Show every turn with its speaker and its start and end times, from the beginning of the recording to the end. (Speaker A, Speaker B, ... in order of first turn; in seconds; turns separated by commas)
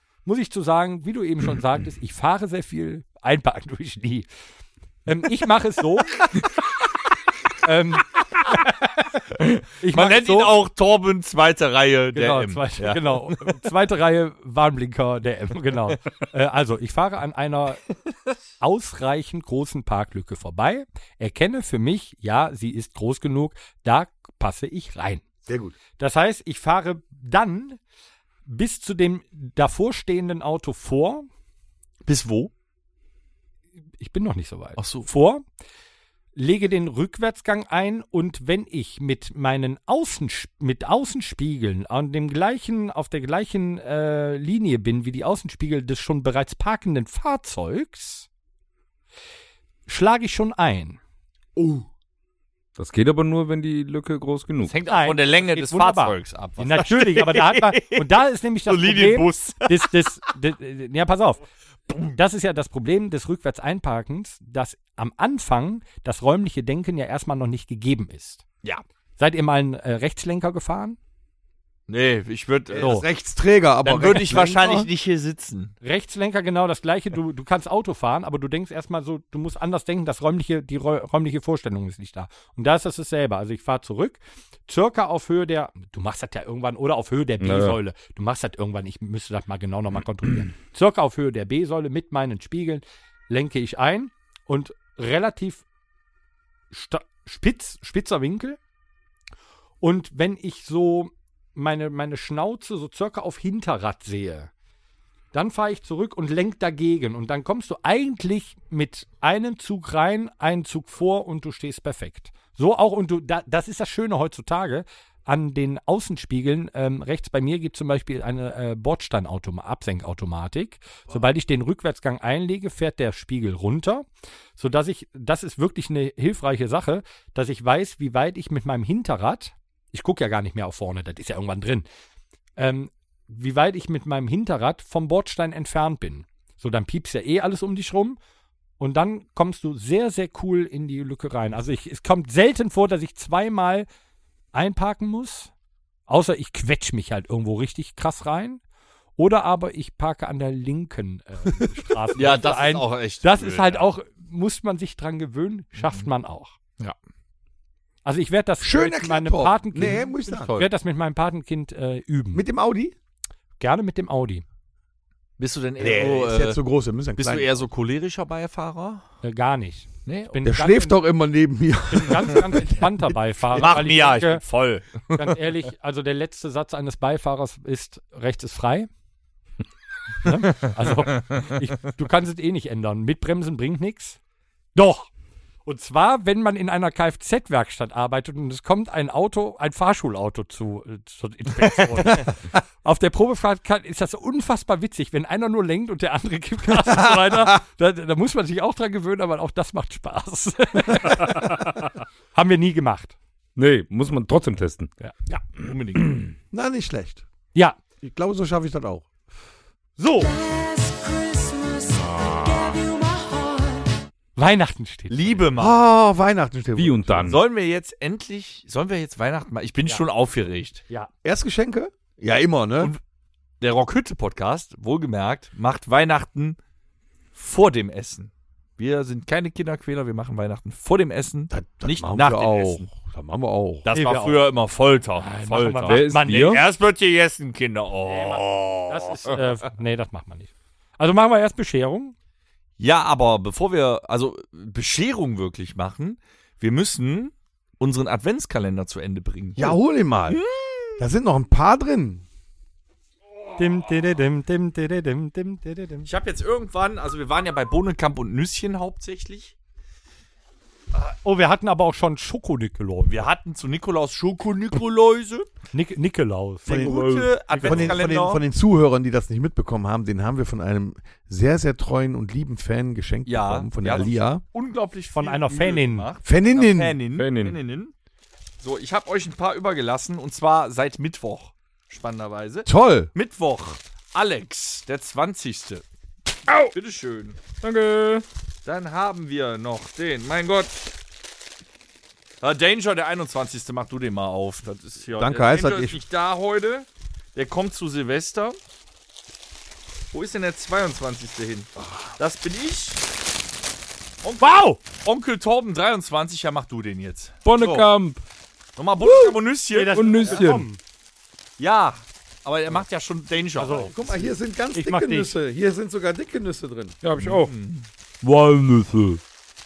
Speaker A: 0.2-4.2, Speaker A: 5.0-6.3, Speaker A: 7.6-8.9, Speaker B: 9.4-13.6, Speaker A: 9.8-10.6, Speaker A: 12.1-17.8, Speaker A: 18.6-25.2, Speaker C: 25.4-25.7, Speaker A: 26.0-27.8, Speaker A: 28.4-31.3, Speaker B: 32.0-32.5, Speaker A: 34.0-35.4, Speaker B: 34.8-35.1, Speaker A: 36.4-48.3, Speaker A: 49.9-51.0, Speaker C: 51.6-51.8, Speaker D: 52.8-54.8, Speaker B: 54.7-58.0, Speaker A: 54.8-61.4, Speaker B: 58.6-59.9, Speaker B: 61.9-62.1, Speaker A: 62.1-68.4, Speaker A: 69.2-71.0, Speaker B: 71.9-73.0, Speaker C: 72.7-74.9, Speaker A: 72.8-73.0, Speaker B: 73.8-75.7, Speaker A: 75.8-95.6, Speaker D: 87.4-87.8, Speaker A: 96.7-98.6, Speaker A: 99.8-104.5, Speaker A: 105.3-124.0, Speaker A: 124.6-131.8, Speaker A: 132.6-138.2, Speaker A: 138.8-143.9, Speaker A: 144.5-145.5, Speaker A: 146.1-148.6, Speaker A: 149.2-156.6, Speaker B: 152.2-153.9, Speaker A: 158.0-162.4, Speaker C: 158.6-160.6, Speaker B: 160.3-160.7, Speaker C: 162.3-162.9, Speaker A: 163.6-164.4, Speaker B: 165.4-166.6, Speaker C: 165.8-167.7, Speaker B: 167.2-169.0, Speaker A: 169.2-171.0, Speaker B: 170.1-170.4, Speaker C: 170.4-172.9, Speaker A: 171.9-174.4, Speaker B: 173.5-175.4, Speaker A: 175.2-178.9, Speaker A: 180.2-184.2, Speaker A: 184.7-185.1, Speaker A: 185.7-203.1, Speaker C: 196.8-197.6, Speaker D: 203.6-204.9, Speaker B: 205.6-206.2, Speaker C: 206.5-207.2, Speaker C: 208.0-209.1, Speaker A: 210.0-210.4, Speaker D: 211.9-212.8, Speaker A: 214.3-215.4, Speaker B: 215.1-215.8, Speaker C: 215.6-217.4, Speaker D: 216.8-217.4, Speaker B: 217.2-220.8, Speaker C: 221.2-222.9, Speaker B: 223.6-226.6, Speaker B: 227.3-232.9, Speaker C: 231.5-233.8, Speaker B: 233.8-239.4, Speaker A: 233.9-234.4, Speaker A: 235.2-236.6, Speaker D: 235.9-236.6, Speaker A: 238.1-242.1, Speaker B: 242.8-251.0, Speaker C: 249.6-250.4, Speaker C: 251.0-252.2, Speaker A: 253.6-256.1, Speaker B: 256.1-259.5, Speaker A: 260.9-263.2, Speaker B: 263.1-265.5, Speaker A: 265.7-266.7, Speaker B: 266.6-268.4, Speaker C: 266.7-274.4, Speaker D: 266.8-267.3, Speaker A: 267.5-267.9, Speaker B: 273.2-277.9, Speaker A: 275.1-276.1, Speaker C: 276.2-277.0, Speaker D: 277.1-277.6, Speaker B: 278.6-285.8, Speaker C: 282.6-283.1, Speaker D: 286.5-286.7, Speaker B: 286.7-287.4, Speaker D: 287.6-288.2, Speaker B: 288.6-290.9, Speaker B: 292.4-298.6, Speaker C: 295.1-296.0, Speaker B: 300.1-303.1, Speaker B: 304.2-307.9, Speaker A: 304.4-304.8, Speaker D: 307.4-308.2, Speaker B: 308.8-310.3, Speaker A: 309.7-310.8, Speaker D: 309.9-310.7, Speaker B: 311.6-314.2, Speaker A: 313.6-313.9, Speaker C: 313.9-316.9, Speaker A: 314.7-315.3, Speaker D: 317.0-317.5, Speaker B: 317.2-317.9, Speaker D: 318.2-319.2